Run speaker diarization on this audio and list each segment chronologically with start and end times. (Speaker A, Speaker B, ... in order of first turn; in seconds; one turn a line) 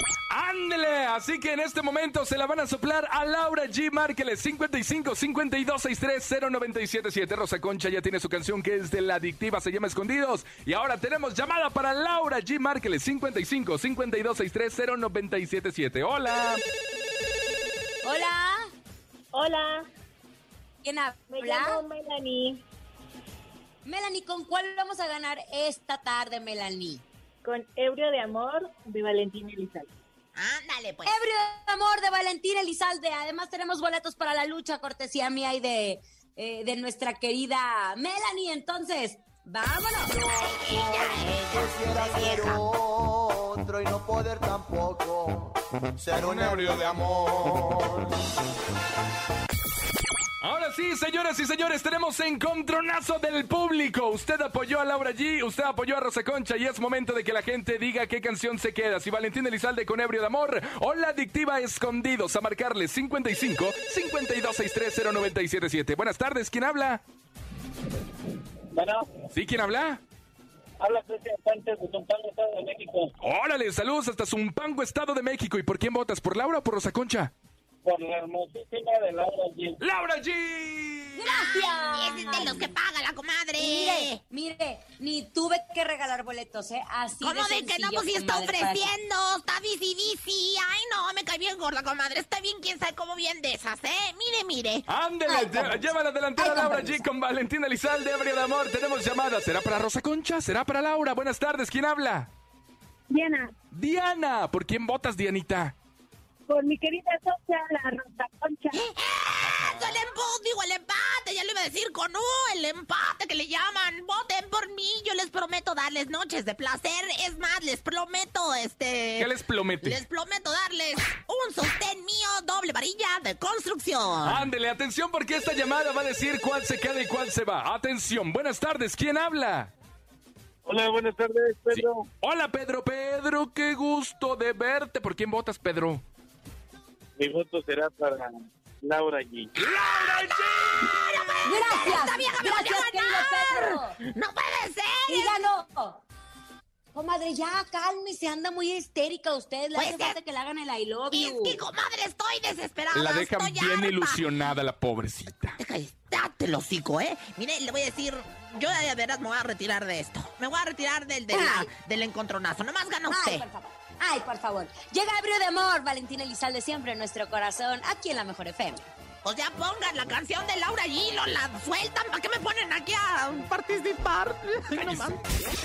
Speaker A: 0.3-16.6
Speaker B: 18.0-18.7
Speaker C: 19.3-19.9
Speaker B: 20.8-21.8
Speaker C: 21.3-22.6
Speaker B: 23.8-27.0
Speaker C: 27.4-29.9
Speaker D: 30.3-31.1
Speaker B: 31.1-40.2
Speaker E: 40.0-48.1
Speaker D: 40.2-42.6
Speaker A: 46.2-46.9
Speaker A: 50.4-67.0
Speaker A: 69.3-70.0
Speaker F: 70.8-73.0
Speaker A: 73.2-77.3
Speaker F: 77.8-79.7
Speaker A: 79.8-81.3
Speaker B: 81.2-82.7
Speaker D: 81.2-84.2
Speaker B: 83.6-88.9
Speaker D: 87.2-94.8
Speaker A: 94.9-102.3
Speaker B: 95.3-97.0
Speaker C: 103.1-103.5
Speaker A: 103.7-105.7
Speaker C: 106.5-108.8
Speaker D: 108.7-119.3
Speaker A: 119.2-120.0
Speaker D: 119.8-124.5
Speaker A: 124.2-129.7
Speaker F: 130.6-132.0
Speaker A: 131.7-136.0
Speaker F: 137.2-138.3
Speaker F: 138.8-139.5
Speaker A: 139.6-141.1
Speaker D: 139.6-145.4
Speaker B: 141.4-144.0
Speaker B: 145.1-146.0
Speaker B: 146.9-151.6
Speaker D: 149.7-150.2
Speaker D: 151.1-154.2
Speaker A: 152.9-155.6
Speaker D: 155.6-163.4
Speaker B: 161.3-161.7
Speaker B: 163.1-168.8
Speaker D: 169.2-175.2
Speaker A: 174.8-175.2